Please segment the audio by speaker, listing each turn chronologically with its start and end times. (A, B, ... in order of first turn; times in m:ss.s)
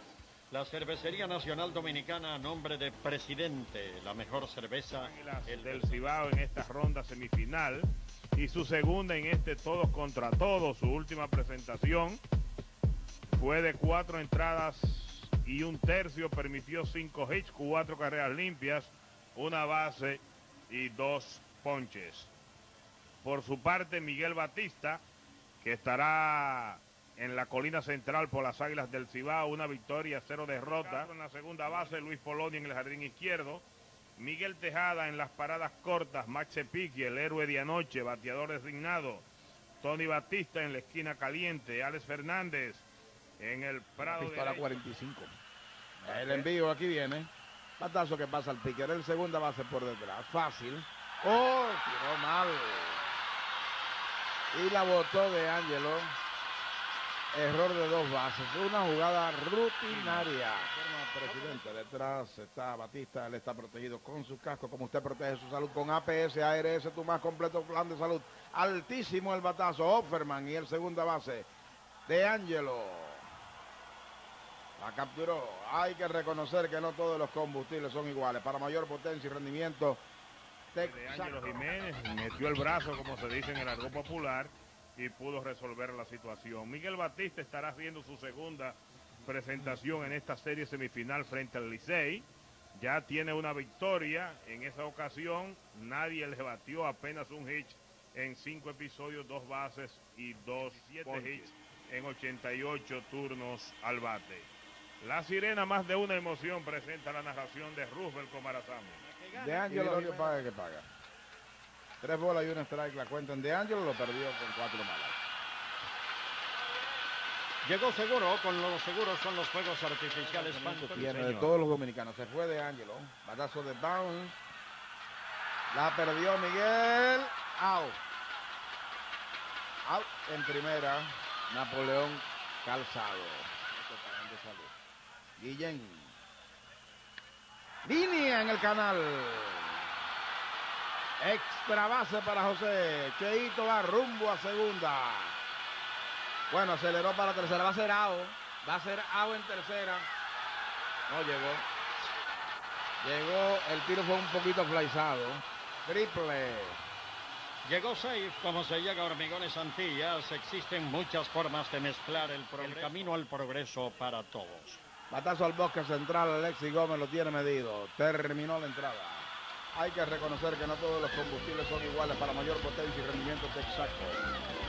0:00.5-0:06.2 A
0:04.9-0:12.2 B
0:13.3-0:22.3 B
0:23.2-0:25.0 B
0:25.6-0:33.6 B
0:34.2-0:39.2 B
0:39.8-0:42.9 B
0:43.4-0:44.8 B
0:44.0-0:45.3 C
0:46.0-0:46.5 B
0:46.0-0:53.0 C
0:54.5-0:56.2 C
0:57.3-1:11.5 C
0:59.9-1:00.7 B
1:01.2-1:02.0 B
1:12.1-1:13.2 C
1:14.8-1:20.0 C
1:20.7-1:21.7 C
1:20.8-1:49.0 B
1:40.9-1:41.5 A
1:49.0-1:50.5 A
1:49.3-1:50.8 C
1:52.0-1:55.2 C
1:57.6-2:01.1 A
2:00.3-2:01.5 B
2:00.9-2:04.4 C
2:05.7-2:08.0 C
2:09.8-2:14.7 C
2:15.4-2:16.1 C
2:17.8-2:19.8 C
2:21.2-2:25.4 C
2:26.5-2:30.1 C
2:31.1-2:31.7 C
2:33.0-2:36.8 C
2:37.6-2:44.8 A
2:42.8-2:43.1 B
2:45.1-2:54.2 C